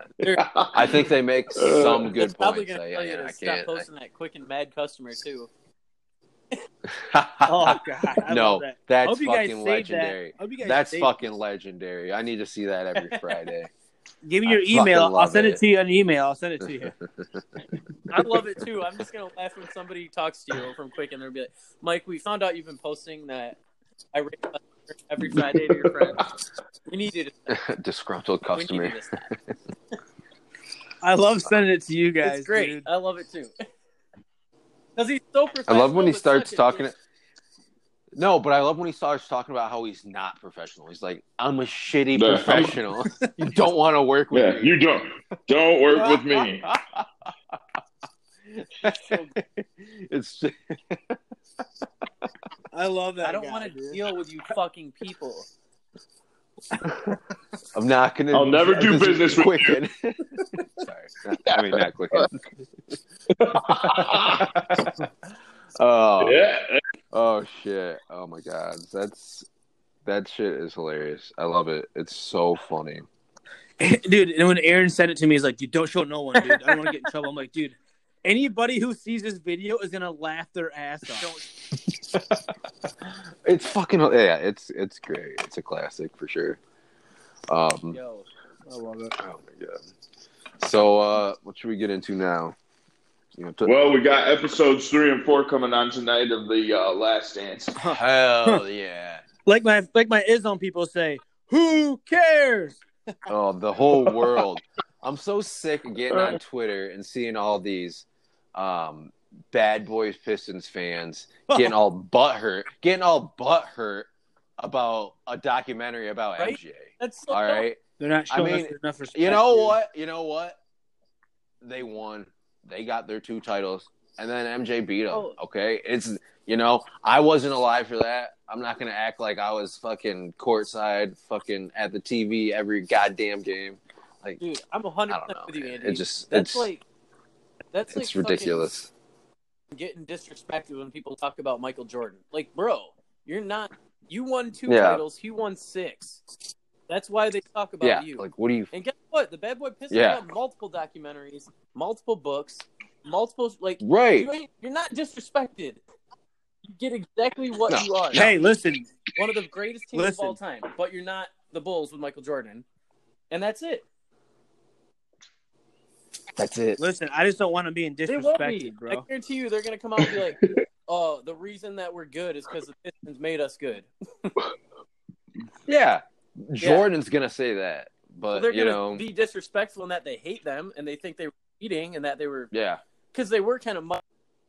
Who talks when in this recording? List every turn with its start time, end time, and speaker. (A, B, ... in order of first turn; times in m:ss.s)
0:00.4-0:02.1 A
0:00.7-0:03.8 B
0:02.1-0:05.5 C
0:06.8-0:13.7 B
0:07.4-0:11.1 D
0:14.2-0:16.9 D
0:14.4-0:15.6 B
0:16.6-0:17.6 B
0:18.1-0:23.6 C
0:24.1-0:26.3 C
0:26.9-0:27.3 C
0:27.5-0:29.4 B
0:28.5-0:29.3 C
0:31.0-0:32.8 D
0:32.2-0:33.5 C
0:35.0-0:36.9 C
0:35.7-0:37.0 B
0:38.1-0:44.8 B
0:42.1-0:42.8 A
0:44.3-0:46.7 A
0:46.0-0:47.6 B
0:48.5-0:51.2 B
0:49.0-0:49.3 C
0:52.7-0:54.0 D
0:53.2-0:55.5 C
0:57.7-1:02.4 B
0:58.3-0:59.8 A
1:01.5-1:02.3 A
1:03.3-1:04.5 A
1:03.5-1:05.1 B
1:05.8-1:06.4 B
1:06.2-1:06.8 A
1:07.1-1:09.5 B
1:10.0-1:13.1 B
1:13.8-1:21.3 D
1:16.4-1:16.8 C
1:21.1-1:21.4 C
1:21.8-1:22.5 B
1:23.0-1:26.6 B
1:27.5-1:28.0 B
1:27.9-1:28.2 C
1:28.6-1:29.1 D
1:29.2-1:29.8 B
1:30.6-1:32.6 B
1:33.3-1:33.7 B
1:33.6-1:37.8 A
1:37.8-1:38.6 D
1:37.9-1:39.2 B
1:39.4-1:42.8 D
1:43.3-1:57.8 B
1:46.1-1:46.4 A
1:56.4-1:57.6 C
1:58.0-1:59.8 D
1:58.3-2:00.6 B
2:01.6-2:14.4 B
2:05.1-2:05.4 C
2:14.4-2:16.8 C
2:15.1-2:16.7 B
2:17.7-2:18.7 C
2:17.9-2:18.9 B
2:19.7-2:26.2 C
2:24.7-2:25.0 B
2:26.9-2:35.8 C
2:27.8-2:28.7 B
2:29.9-2:30.2 B
2:33.8-2:34.3 B
2:36.7-2:38.3 C
2:37.7-2:38.4 B
2:38.1-2:38.9 D
2:39.2-2:42.6 C
2:39.9-2:40.4 D
2:43.3-2:43.8 C
2:46.4-2:46.8 B
2:46.8-2:49.0 D
2:48.0-2:53.9 C
2:55.7-2:59.0 B
2:56.6-2:56.9 C
2:58.3-3:02.5 C
3:02.5-3:02.8 B
3:03.1-3:04.0 C